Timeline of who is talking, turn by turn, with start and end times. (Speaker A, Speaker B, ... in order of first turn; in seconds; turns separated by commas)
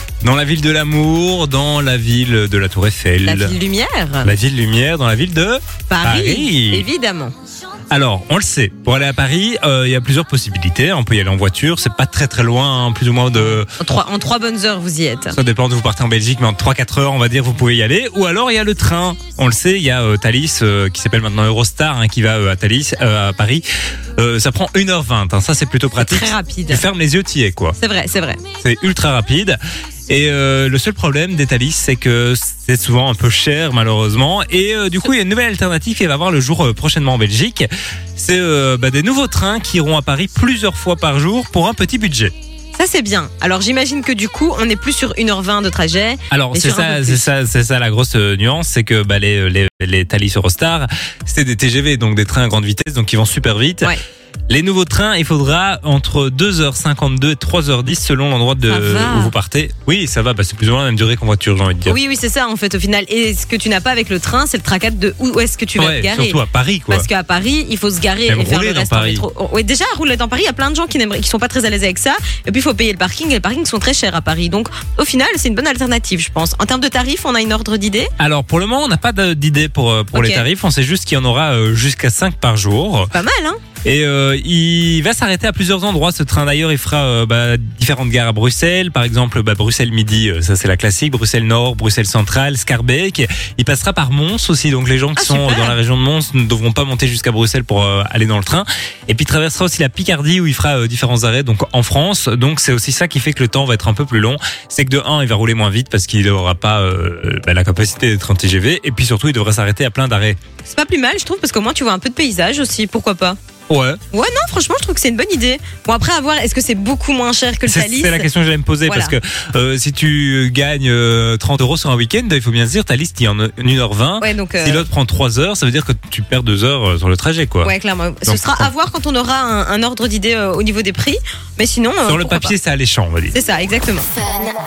Speaker A: 0.2-3.5, Speaker B: 3.2-4.3, Speaker A: 4.2-6.9, Speaker B: 5.9-7.3, Speaker A: 7.9-13.7, Speaker B: 13.3-15.3, Speaker A: 15.3-23.6, Speaker A: 24.2-27.8, Speaker B: 26.0-26.8, Speaker B: 27.8-28.4, Speaker A: 28.6-42.3, Speaker B: 42.8-47.3, Speaker A: 46.3-53.9, Speaker A: 54.5-62.0, Speaker B: 58.6-59.3, Speaker B: 61.9-78.1, Speaker A: 65.8-67.1, Speaker A: 68.3-69.2, Speaker A: 78.2-83.1, Speaker B: 80.1-80.4, Speaker B: 83.1-83.6, Speaker A: 83.8-110.4, Speaker B: 95.2-95.8, Speaker B: 110.7-113.4, Speaker A: 113.7-114.0, Speaker B: 114.1-118.3, Speaker A: 117.7-127.7, Speaker B: 118.9-119.2, Speaker B: 124.2-124.9, Speaker B: 127.6-132.6, Speaker A: 128.2-128.7, Speaker A: 132.0-133.4, Speaker B: 133.3-134.1